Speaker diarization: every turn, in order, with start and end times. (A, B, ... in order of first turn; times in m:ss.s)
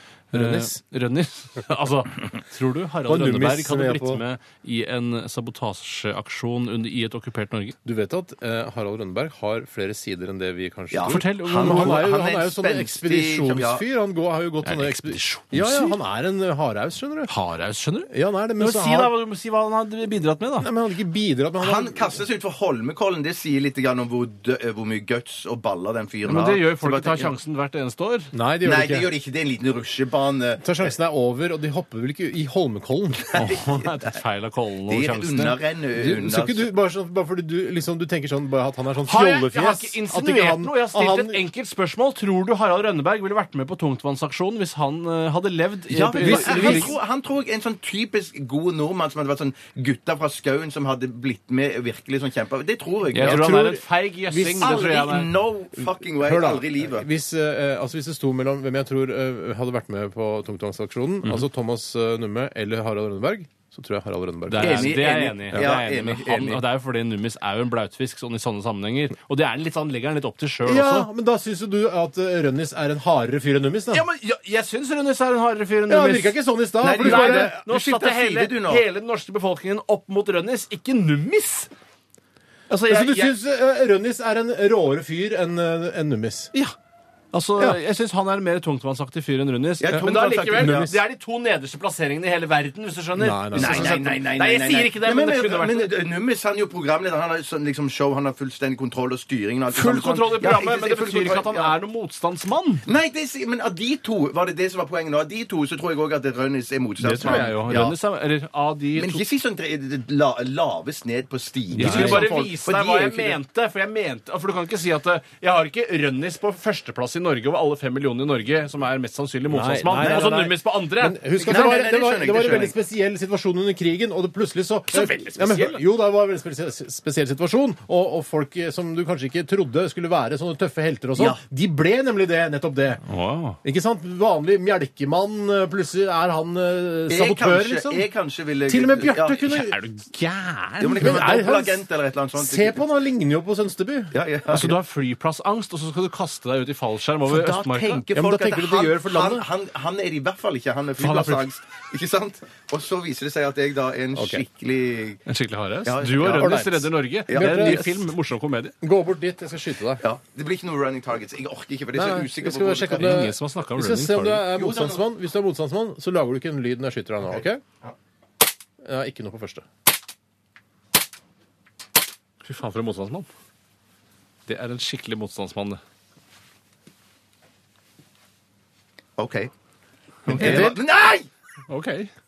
0:00.3-0:07.8 A
0:00.3-0:00.8 B
0:03.1-0:04.2 B
0:07.8-0:17.3 B
0:10.9-0:13.8 C
0:11.0-0:12.0 A
0:14.6-0:16.0 A
0:17.3-0:20.7 A
0:18.1-0:19.1 B
0:20.6-0:22.2 B
0:21.6-0:27.3 C
0:26.2-0:28.3 A
0:28.3-0:29.1 B
0:28.6-0:30.9 C
0:30.6-0:33.4 B
0:33.3-0:34.2 C
0:33.3-0:35.6 A
0:34.9-0:36.7 C
0:36.0-0:41.4 B
0:39.1-0:47.0 A
0:45.9-0:53.5 C
0:46.2-0:47.0 B
0:53.1-0:55.0 B
0:53.1-0:55.3 A
0:54.6-0:57.1 C
0:56.2-1:05.7 B
1:04.5-1:11.1 A
1:04.6-1:06.6 C
1:10.6-1:14.0 B
1:13.9-1:16.4 A
1:15.9-1:17.6 B
1:16.8-1:18.9 C
1:17.0-1:21.7 A
1:22.7-1:23.4 A
1:22.9-1:26.5 B
1:27.3-1:35.9 A
1:29.8-1:30.9 C
1:30.6-1:31.0 B
1:33.2-1:34.0 B
1:33.6-1:41.7 C
1:39.7-1:42.8 A
1:42.8-1:48.0 C
1:47.0-1:49.2 A
1:47.0-1:47.9 B
1:49.0-1:53.4 C
1:51.8-2:01.5 A
1:51.8-1:52.5 B
1:59.5-2:13.0 B
1:59.9-2:00.3 C
2:01.4-2:02.8 C
2:04.9-2:05.8 A
2:13.1-2:13.6 A
2:13.6-2:18.1 B
2:17.1-2:19.5 C
2:18.7-2:24.7 B
2:19.5-2:20.0 A
2:20.8-2:22.8 C
2:24.1-2:24.8 C
2:24.5-2:28.0 A
2:27.3-2:35.2 C
2:28.1-2:29.5 B
2:31.0-2:31.4 A
2:34.1-2:34.4 B
2:35.3-2:38.8 A
2:35.8-2:36.6 C
2:36.2-2:38.0 B
2:37.3-2:37.9 C
2:38.8-2:40.0 B
2:40.0-2:43.3 C
2:42.0-2:47.6 B
2:43.0-2:44.5 A
2:44.5-2:45.0 C
2:47.3-2:47.9 C
2:48.8-2:49.7 B
2:52.4-2:53.3 A
2:54.5-2:55.8 A
2:59.2-2:59.5 C
3:00.3-3:00.8 A
3:00.3-3:00.8 B
3:00.3-3:01.3 C
3:01.7-3:02.1 A